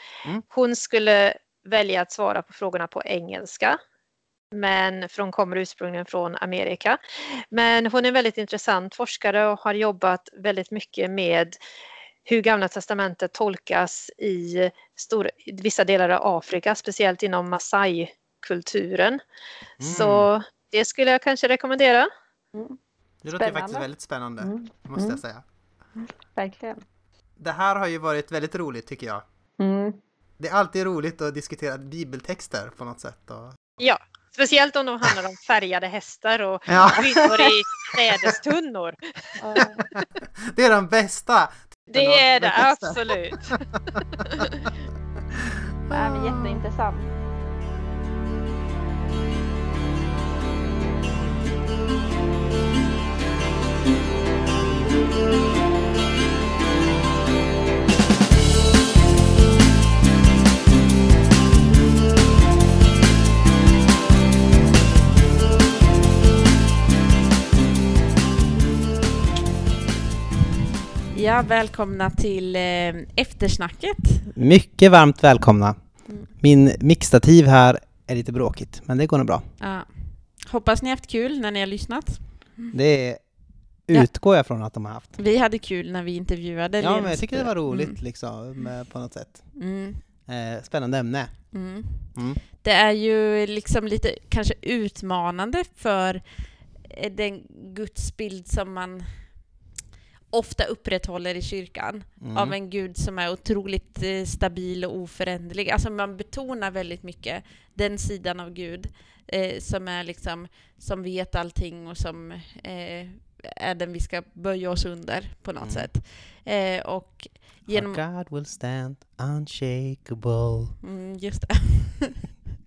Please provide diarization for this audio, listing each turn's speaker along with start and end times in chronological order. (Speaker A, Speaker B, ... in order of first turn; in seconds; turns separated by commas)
Speaker A: 0.5-3.8, Speaker A: 4.5-7.0, Speaker A: 7.5-11.6, Speaker A: 12.3-19.2, Speaker B: 19.8-20.3, Speaker A: 19.8-22.1, Speaker B: 23.2-25.4, Speaker C: 23.3-23.9, Speaker C: 24.4-25.2, Speaker C: 26.0-26.8, Speaker B: 27.4-29.2, Speaker C: 29.6-30.0, Speaker B: 30.4-33.6, Speaker A: 33.8-39.4, Speaker B: 36.7-37.1, Speaker C: 37.2-37.5, Speaker C: 39.4-39.9, Speaker B: 39.9-44.5, Speaker A: 41.9-43.6, Speaker C: 45.9-47.1, Speaker D: 71.1-74.3, Speaker B: 74.3-79.5, Speaker D: 76.1-76.3, Speaker D: 79.6-82.7, Speaker B: 82.7-85.2, Speaker D: 85.2-88.0, Speaker B: 86.8-89.7, Speaker D: 89.6-90.0, Speaker B: 90.2-92.4, Speaker D: 91.5-99.5, Speaker D: 100.3-118.0, Speaker B: 102.2-102.6, Speaker B: 115.6-115.9, Speaker B: 117.7-120.7, Speaker D: 120.8-122.3